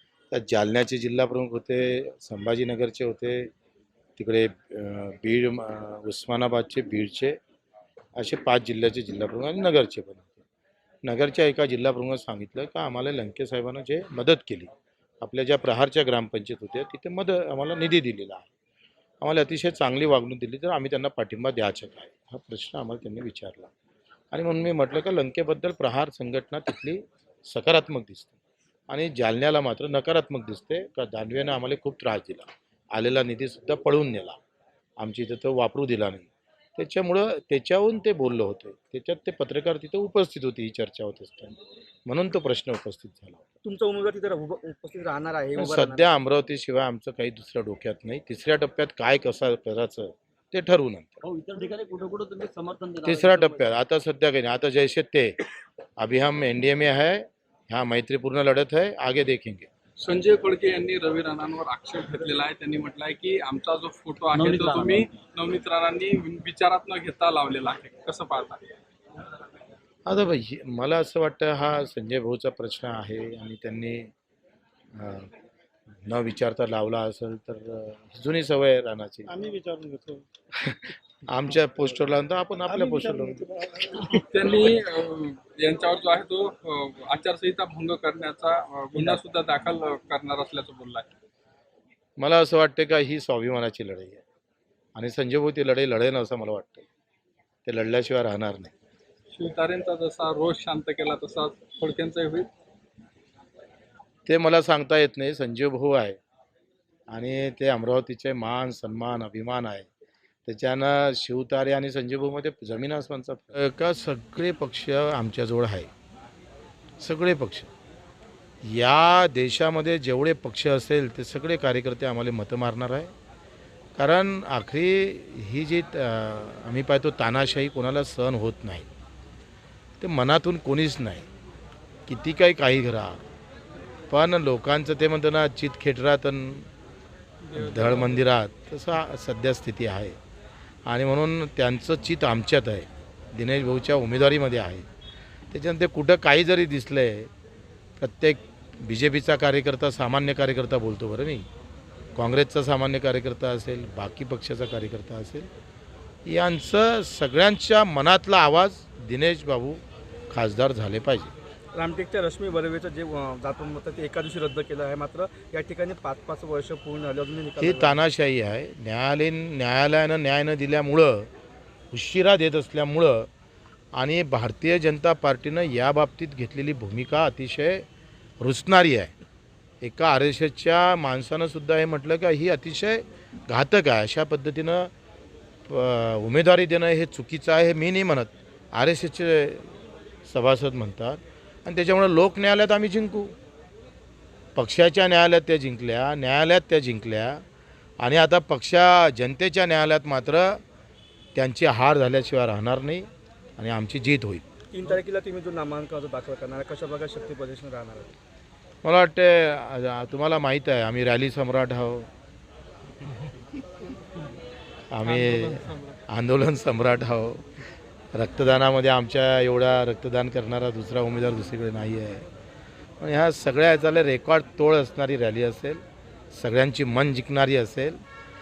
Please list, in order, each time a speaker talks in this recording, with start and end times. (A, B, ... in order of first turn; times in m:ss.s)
0:00.3-0:03.5 A
0:04.2-0:07.4 A
0:08.2-0:10.3 A
0:11.0-0:18.4 A
0:19.2-0:23.7 A
0:24.3-0:28.3 A
0:28.9-0:34.4 A
0:35.0-0:43.5 A
0:43.6-0:46.1 B
0:45.6-0:51.2 A
0:51.2-0:53.7 C
0:53.0-0:55.4 A
0:56.0-0:59.7 A
1:00.0-1:08.6 D
1:04.3-1:05.1 C
1:10.0-1:14.1 A
1:14.9-1:15.3 A
1:16.0-1:19.3 A
1:19.3-1:20.2 E
1:20.6-1:23.5 A
1:22.7-1:24.2 E
1:24.2-1:31.1 D
1:32.2-1:34.2 A
1:35.0-1:36.8 A
1:37.6-1:38.7 A
1:39.3-1:42.5 D
1:44.2-1:46.2 A
1:47.1-1:49.9 A
1:50.4-1:55.9 A
1:57.0-1:57.7 A
1:58.6-2:03.1 A
2:04.0-2:08.9 A
2:10.0-2:11.2 A
2:12.1-2:13.2 A
2:14.1-2:16.7 A
2:17.4-2:18.3 D
2:17.6-2:20.2 A
2:20.8-2:24.8 A
2:25.5-2:27.3 A
2:28.0-2:31.4 A
2:32.1-2:35.5 A
2:36.2-2:41.3 A
2:41.7-2:48.0 B
2:47.6-2:51.3 A
2:51.9-2:53.3 A
2:53.9-2:57.8 A
2:58.4-2:59.1 A
2:59.8-3:04.9 A
3:05.7-3:09.7 A
3:10.2-3:13.3 A
3:14.6-3:17.4 A
3:18.0-3:20.6 A
3:21.3-3:24.4 A
3:24.7-3:28.2 B
3:28.8-3:32.1 A
3:34.9-3:37.5 A
3:38.1-3:42.2 A
3:43.0-3:48.0 A